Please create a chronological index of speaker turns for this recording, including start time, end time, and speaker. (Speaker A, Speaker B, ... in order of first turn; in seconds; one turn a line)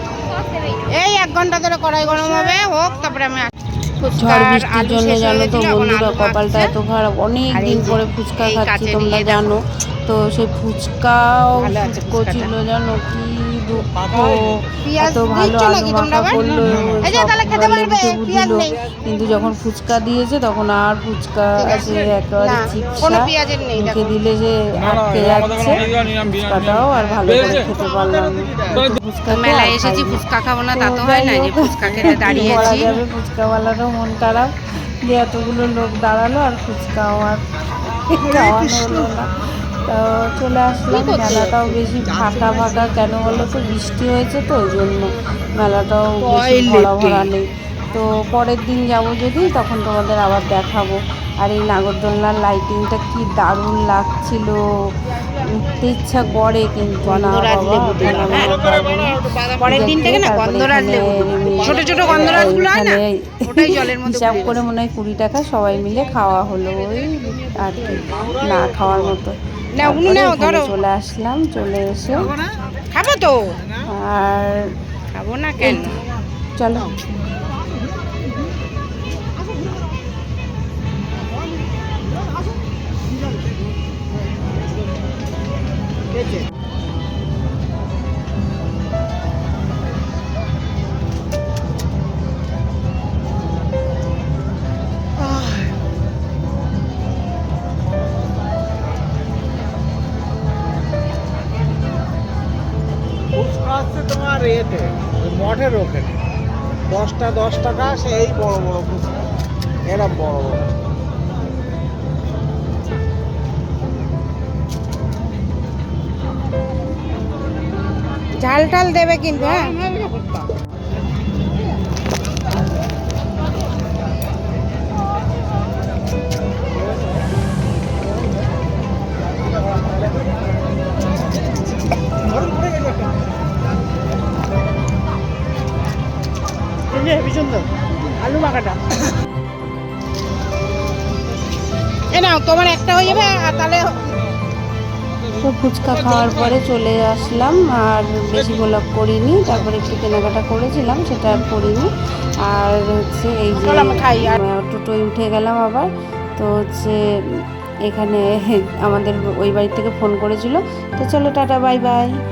Speaker A: 0.4-6.7
Speaker B: 4.1-30.2
Speaker A: 7.5-9.6
Speaker A: 11.6-12.5
Speaker A: 14.9-16.4
Speaker A: 17.0-18.8
Speaker A: 22.4-24.1
Speaker A: 29.3-32.9
Speaker B: 30.7-34.5
Speaker B: 35.0-37.4
Speaker B: 38.1-54.6
Speaker A: 46.2-47.3
Speaker B: 55.4-72.4
Speaker A: 57.0-58.7
Speaker A: 59.4-64.6
Speaker A: 69.8-70.7
Speaker A: 72.9-73.6
Speaker B: 73.9-74.7
Speaker A: 75.2-76.0
Speaker B: 75.6-75.9
Speaker B: 76.6-76.9
Speaker C: 103.9-104.9
Speaker C: 105.4-106.0
Speaker C: 107.0-108.9
Speaker C: 110.0-110.6
Speaker A: 118.4-120.2
Speaker A: 137.0-137.3
Speaker A: 138.2-138.8
Speaker A: 142.1-144.2
Speaker B: 145.4-151.9
Speaker B: 152.4-162.1
Speaker A: 153.5-154.4